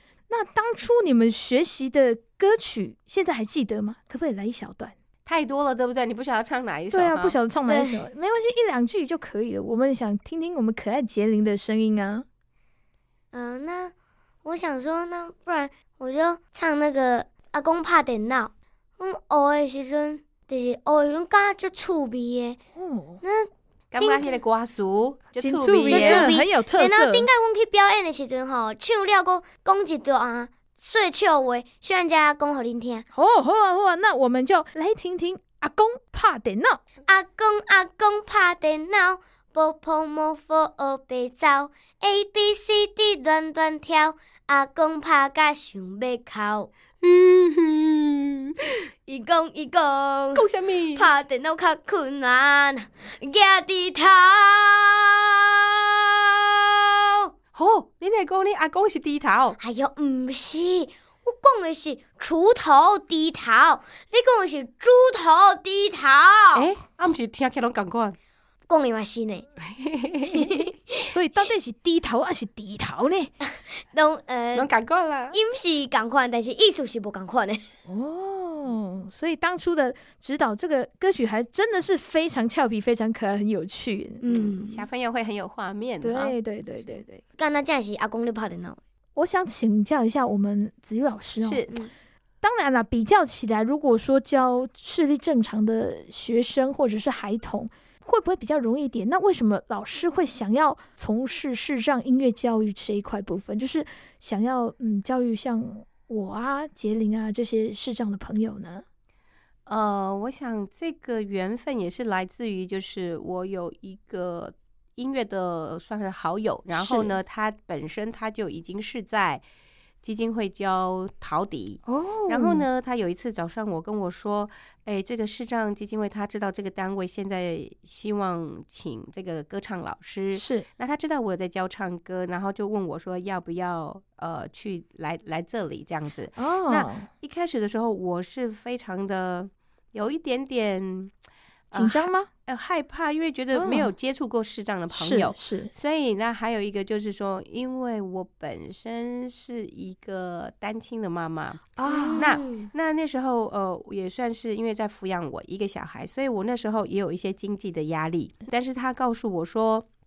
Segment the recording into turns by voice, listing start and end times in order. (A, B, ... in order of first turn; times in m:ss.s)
0:00.3-0:04.9 A
0:05.2-0:07.4 B
0:06.9-0:12.2 A
0:07.7-0:08.0 C
0:13.3-0:13.9 C
0:14.4-0:22.6 C
0:22.8-0:23.2 A
0:23.2-0:24.4 C
0:23.9-0:26.3 B
0:25.4-0:27.3 A
0:25.8-0:33.1 C
0:33.1-0:36.8 A
0:37.1-0:46.7 C
0:47.0-0:48.3 B
0:49.1-0:57.3 C
0:50.4-0:51.1 B
0:57.5-0:59.6 B
0:59.6-1:06.7 C
1:06.6-1:08.2 B
1:08.7-1:09.5 C
1:09.6-1:10.6 B
1:10.3-1:11.0 C
1:11.0-1:13.3 A
1:13.9-1:14.7 C
1:14.5-1:15.4 B
1:15.3-1:17.7 C
1:17.9-1:24.2 A
1:24.2-1:24.9 C
1:24.3-1:27.0 B
1:26.0-1:27.2 A
1:27.4-1:28.8 C
1:29.2-1:31.7 A
1:31.4-1:31.7 B
1:32.4-1:48.8 A
1:49.7-1:59.4 B
1:56.7-1:57.2 A
2:00.0-2:21.1 B
2:01.9-2:02.7 A
2:10.4-2:10.7 A
2:16.4-2:17.1 A
2:21.7-2:39.9 B
2:21.8-2:22.3 A
2:23.5-2:23.9 A
2:24.9-2:25.7 A
2:31.8-2:32.3 A
2:31.8-2:32.7 C